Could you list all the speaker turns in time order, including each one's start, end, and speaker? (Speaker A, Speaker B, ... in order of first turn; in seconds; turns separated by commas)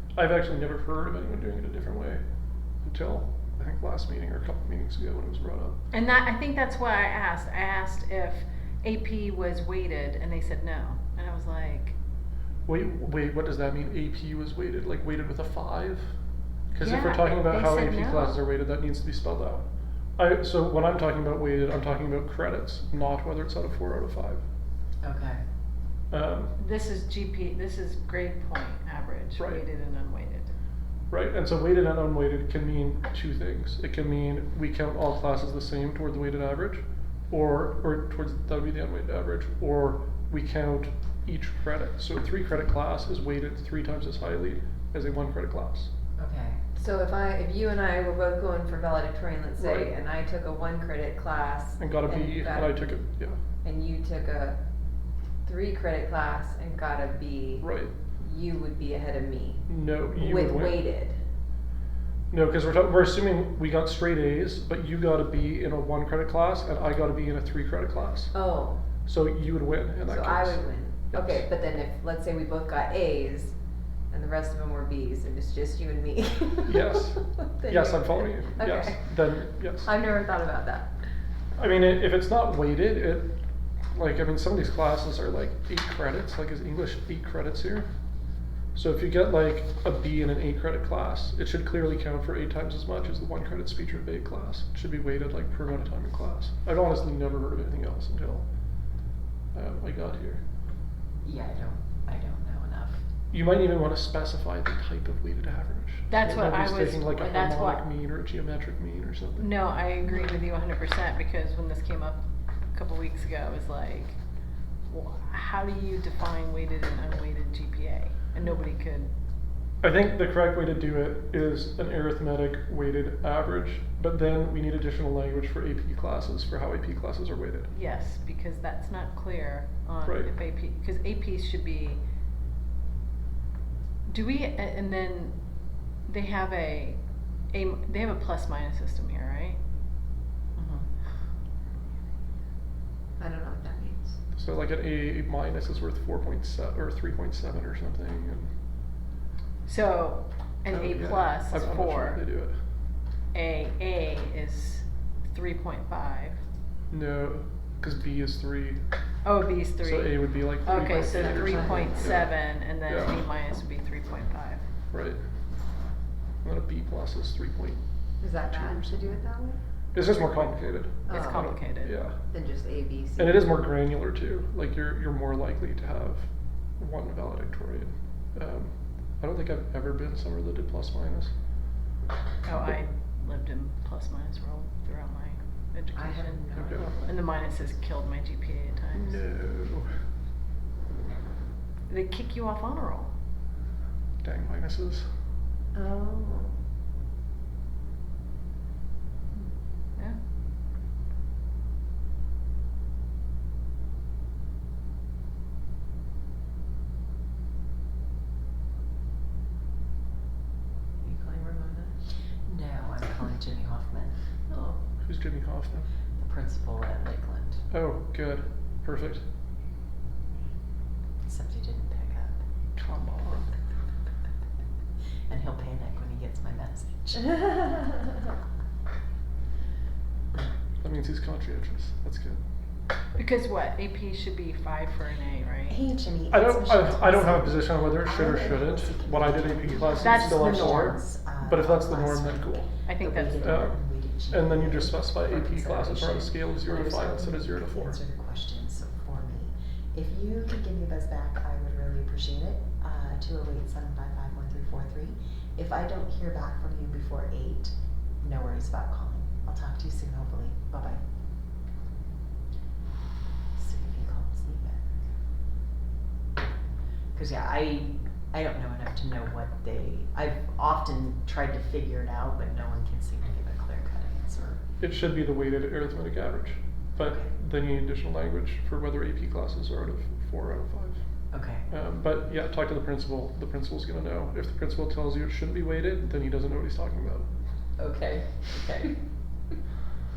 Speaker A: 0.1-2.2, Speaker A: 2.8-5.8, Speaker B: 5.9-11.9, Speaker A: 12.7-16.1, Speaker A: 16.7-19.6, Speaker B: 16.8-18.4, Speaker A: 20.1-24.4, Speaker C: 25.0-25.4, Speaker A: 26.1-26.5, Speaker B: 26.6-30.5, Speaker A: 29.4-29.6, Speaker A: 31.1-45.9, Speaker C: 46.2-46.7, Speaker D: 46.8-53.0, Speaker A: 49.6-49.9, Speaker A: 51.8-53.4, Speaker D: 53.6-54.6, Speaker D: 55.4-61.2, Speaker A: 57.6-57.9, Speaker A: 59.7-60.9, Speaker A: 62.3-68.3, Speaker D: 68.3-68.8, Speaker A: 69.0-71.4, Speaker D: 70.0-73.5, Speaker D: 74.1-79.2, Speaker A: 76.7-79.9, Speaker D: 79.8-81.0, Speaker A: 81.6-83.3, Speaker A: 83.9-87.9, Speaker A: 88.7-98.5, Speaker A: 99.5-100.4, Speaker C: 101.2-103.0, Speaker A: 103.3-109.5, Speaker B: 106.1-107.8, Speaker B: 109.4-112.2, Speaker B: 112.7-114.2, Speaker B: 114.9-119.1, Speaker A: 119.8-127.7, Speaker B: 127.7-132.0, Speaker A: 130.0-130.3, Speaker B: 134.1-135.3, Speaker B: 136.1-137.0, Speaker B: 137.5-139.6, Speaker C: 140.6-140.9, Speaker D: 143.2-144.2, Speaker A: 144.3-148.5, Speaker B: 149.7-152.2, Speaker A: 150.7-152.6, Speaker B: 153.3-156.4, Speaker A: 156.9-158.8, Speaker B: 159.2-164.6, Speaker A: 159.8-162.3, Speaker D: 160.7-162.1, Speaker A: 162.8-163.2, Speaker A: 164.9-165.2, Speaker A: 166.4-167.8, Speaker D: 168.2-169.6, Speaker A: 168.4-169.0, Speaker A: 169.9-172.2, Speaker B: 170.0-170.5, Speaker D: 171.1-171.6, Speaker B: 171.1-171.9, Speaker D: 172.3-173.5, Speaker A: 173.2-181.3, Speaker B: 182.4-186.4, Speaker A: 182.5-182.8, Speaker D: 185.9-187.1, Speaker A: 186.5-186.9, Speaker B: 187.0-189.2, Speaker A: 188.9-189.9, Speaker B: 191.9-193.1, Speaker A: 194.2-195.1, Speaker D: 195.7-196.6, Speaker B: 199.3-200.2, Speaker D: 211.0-212.0, Speaker C: 212.4-214.2, Speaker D: 214.5-214.8, Speaker A: 215.0-215.9, Speaker C: 216.2-217.7, Speaker A: 217.7-219.2, Speaker C: 221.2-222.4, Speaker A: 222.8-223.5, Speaker C: 225.3-227.6, Speaker A: 230.8-232.4, Speaker B: 233.1-235.8, Speaker C: 235.7-261.0, Speaker A: 236.3-242.7, Speaker B: 240.0-240.9, Speaker B: 242.8-243.5, Speaker A: 243.4-248.0, Speaker C: 263.5-264.9, Speaker C: 267.1-274.6, Speaker A: 274.8-281.0, Speaker C: 277.0-277.3, Speaker C: 281.3-281.7, Speaker A: 281.7-287.3, Speaker D: 287.8-288.9, Speaker C: 288.5-288.9